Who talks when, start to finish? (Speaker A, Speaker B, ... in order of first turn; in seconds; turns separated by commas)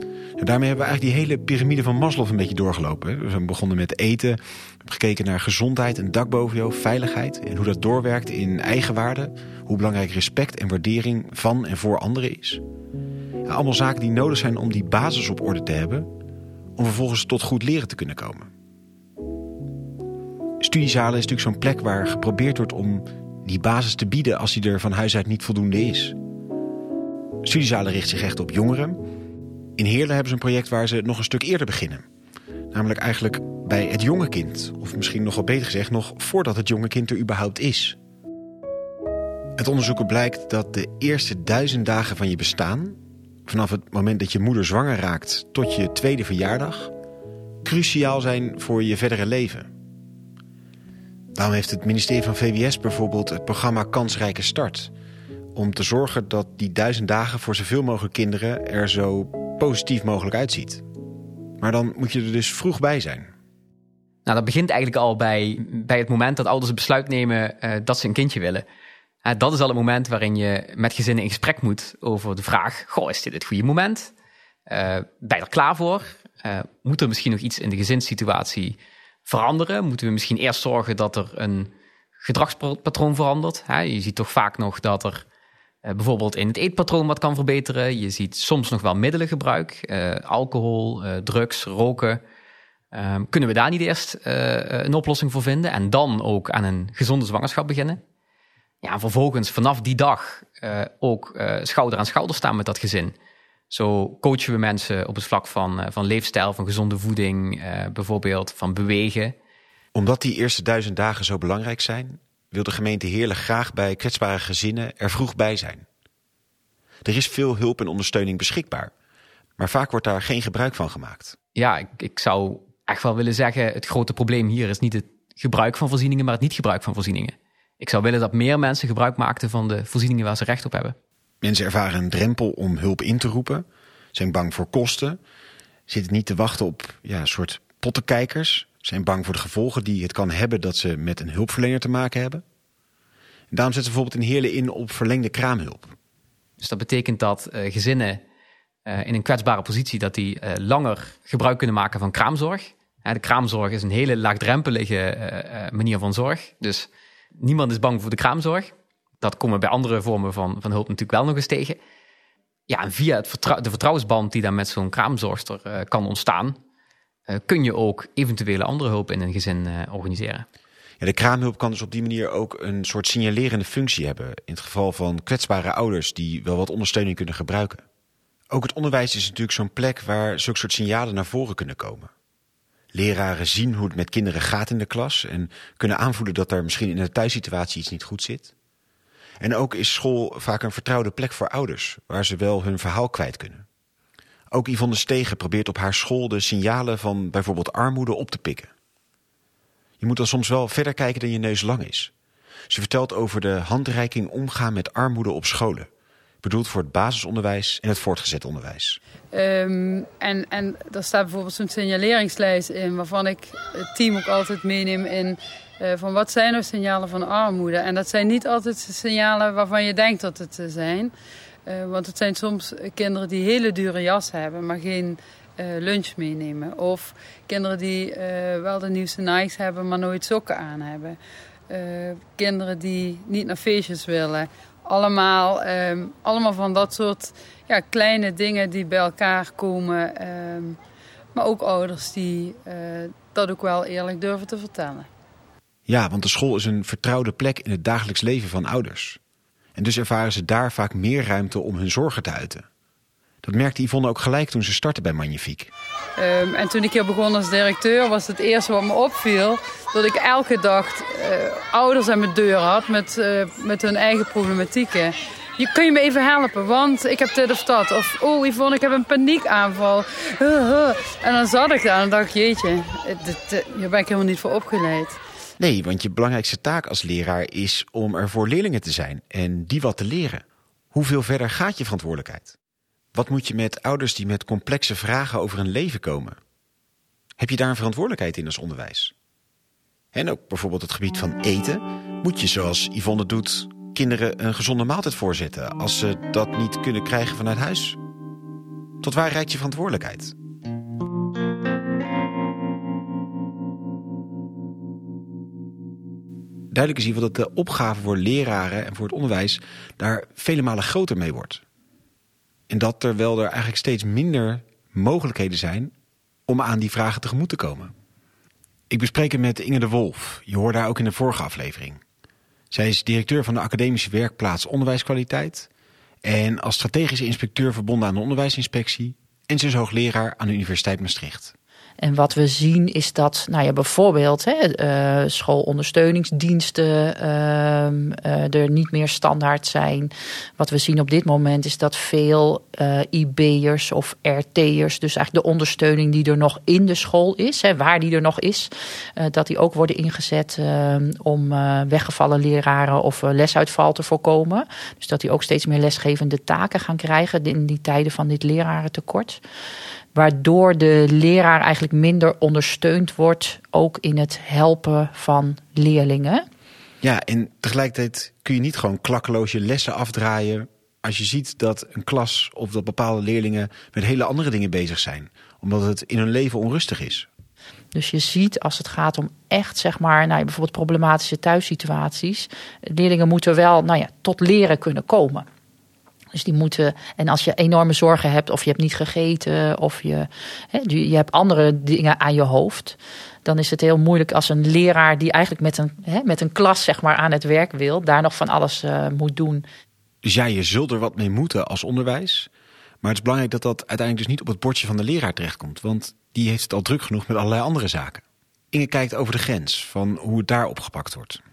Speaker A: 0.4-12.6, Speaker A: 13.5-16.1, Speaker A: 16.8-18.5, Speaker A: 20.6-26.2, Speaker A: 27.4-29.0, Speaker A: 29.8-32.0, Speaker A: 32.7-38.0, Speaker A: 39.6-46.9, Speaker A: 47.6-49.7, Speaker A: 51.4-54.9, Speaker A: 55.5-60.9, Speaker A: 61.6-63.3, Speaker B: 64.3-68.7, Speaker B: 69.2-74.1, Speaker B: 74.7-85.2, Speaker B: 85.8-92.2, Speaker B: 92.9-98.0, Speaker B: 98.8-103.1, Speaker B: 103.7-109.3, Speaker A: 110.0-115.9, Speaker A: 117.0-118.9, Speaker A: 119.6-121.4, Speaker B: 121.6-131.0, Speaker A: 131.4-135.2, Speaker A: 135.9-142.4, Speaker A: 143.5-145.9, Speaker B: 146.6-148.2, Speaker B: 148.9-161.8, Speaker B: 162.7-166.6, Speaker B: 167.3-170.4, Speaker A: 171.0-177.8, Speaker A: 178.5-182.1, Speaker A: 182.9-188.5, Speaker A: 189.4-193.7, Speaker A: 194.5-198.7, Speaker A: 200.0-202.1, Speaker A: 202.7-205.9, Speaker A: 206.4-209.0, Speaker C: 209.3-221.1, Speaker C: 221.7-231.2, Speaker C: 231.7-240.8, Speaker C: 241.3-245.1, Speaker A: 245.9-249.2, Speaker A: 249.8-252.7, Speaker A: 253.4-255.7, Speaker C: 256.2-275.2, Speaker A: 275.6-282.6, Speaker A: 283.1-286.4, Speaker A: 287.4-289.1, Speaker A: 290.1-298.0, Speaker A: 299.0-300.3, Speaker A: 306.7-311.6, Speaker A: 312.7-315.9, Speaker A: 316.5-317.9, Speaker A: 318.9-322.0, Speaker A: 322.7-325.7, Speaker A: 326.2-331.5, Speaker D: 332.0-359.4, Speaker D: 360.1-366.5, Speaker A: 367.0-377.3, Speaker D: 377.9-385.5, Speaker D: 386.3-399.7, Speaker A: 400.2-402.5, Speaker A: 403.0-411.4